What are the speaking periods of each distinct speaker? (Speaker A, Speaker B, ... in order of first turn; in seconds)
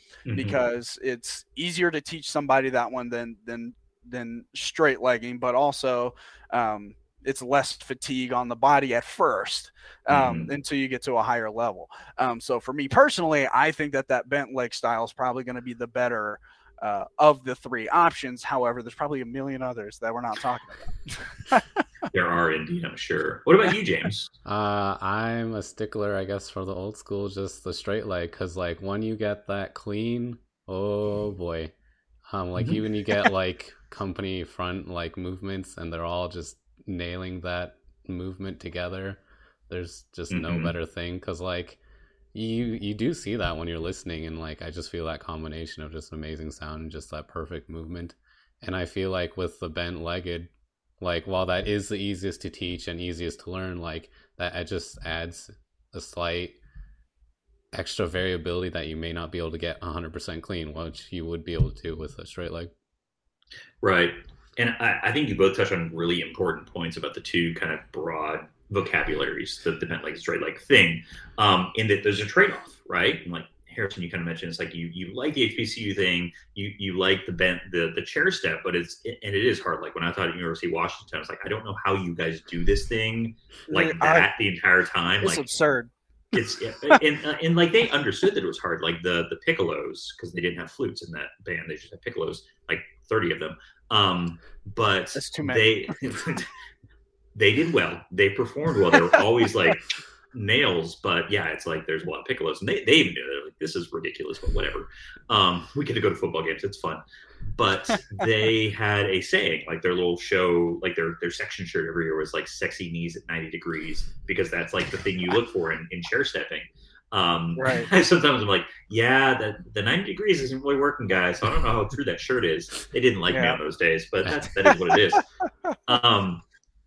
Speaker A: 0.3-0.6, 10.1-10.5, 22.1-24.3, 32.6-32.8, 40.3-40.7, 63.8-85.5, 86.3-96.5, 97.3-125.2, 125.9-126.4
Speaker B: 0.3-21.6, 83.7-84.3, 85.2-85.9, 95.2-95.7, 117.6-117.9, 123.3-123.6, 124.4-125.0
Speaker C: 24.4-31.7, 32.3-41.8, 42.3-56.6, 57.7-62.7